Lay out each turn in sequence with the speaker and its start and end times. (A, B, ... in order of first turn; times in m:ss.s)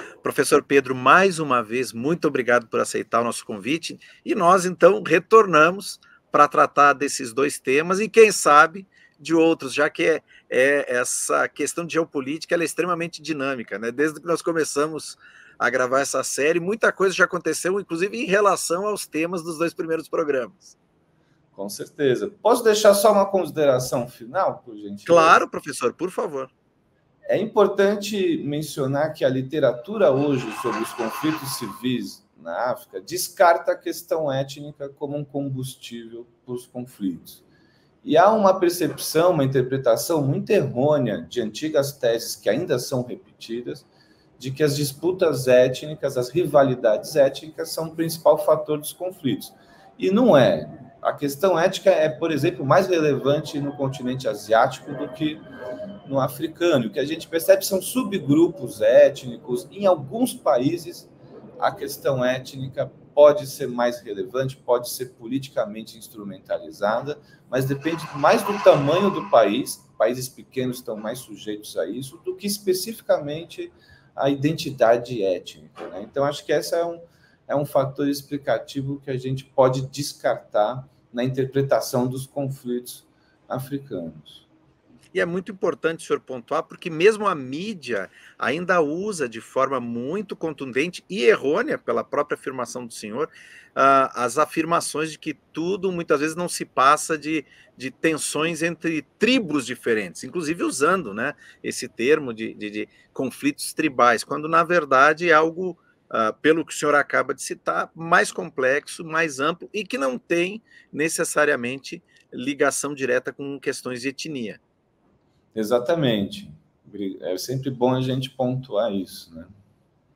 0:00.2-0:20.8 A
0:21.5-0:25.4 B
0:25.1-0:26.5 A
0:27.3-0:37.4 B
0:38.0-0:43.9 B
0:44.4-0:55.4 B
0:56.0-1:24.4 B
1:25.1-1:54.6 A
1:55.5-1:59.5 B